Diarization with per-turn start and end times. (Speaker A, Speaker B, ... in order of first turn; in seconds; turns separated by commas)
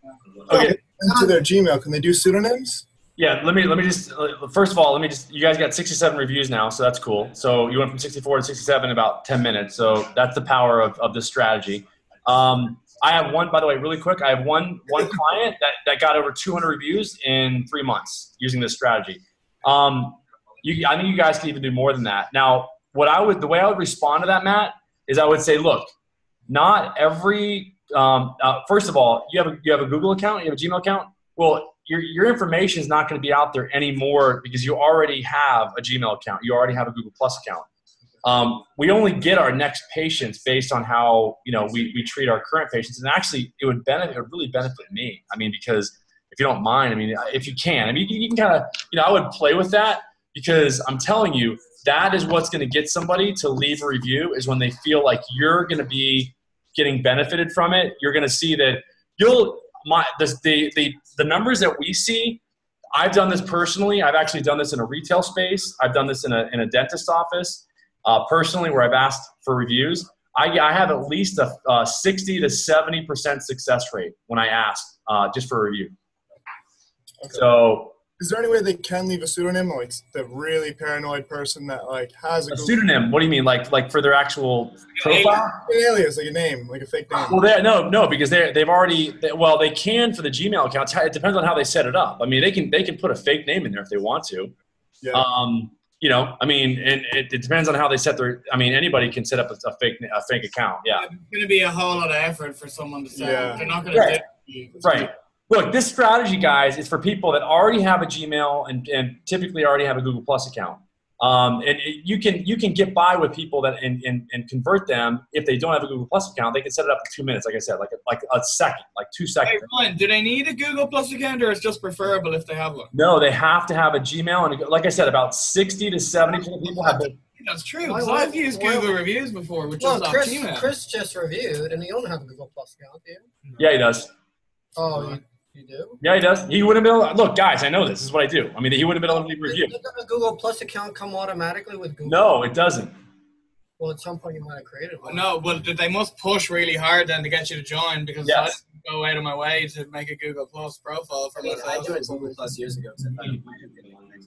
Speaker A: 0.5-0.8, Speaker B: 0.5-2.9, Speaker C: 0.6-1.3, Speaker A: 3.2-25.9, Speaker A: 26.5-37.7, Speaker A: 38.2-62.4, Speaker A: 62.9-75.9, Speaker B: 77.2-77.5, Speaker A: 77.3-78.0, Speaker B: 78.2-82.8, Speaker A: 82.5-85.6, Speaker D: 85.0-85.5, Speaker B: 85.5-87.4, Speaker A: 87.2-94.5, Speaker B: 95.0-95.3, Speaker A: 95.1-101.1, Speaker D: 101.0-105.1, Speaker C: 103.2-103.6, Speaker B: 103.2-103.7, Speaker A: 103.9-104.2, Speaker A: 104.8-119.7, Speaker D: 119.5-122.9, Speaker A: 122.9-127.2, Speaker C: 126.7-127.0, Speaker D: 127.4-130.7, Speaker C: 127.8-128.9, Speaker C: 129.8-133.3, Speaker A: 133.6-134.1, Speaker C: 134.8-136.0, Speaker A: 136.0-139.8, Speaker C: 139.4-142.2, Speaker A: 142.1-142.9, Speaker C: 143.8-145.3, Speaker D: 145.0-152.3, Speaker A: 148.2-148.6, Speaker E: 151.4-154.2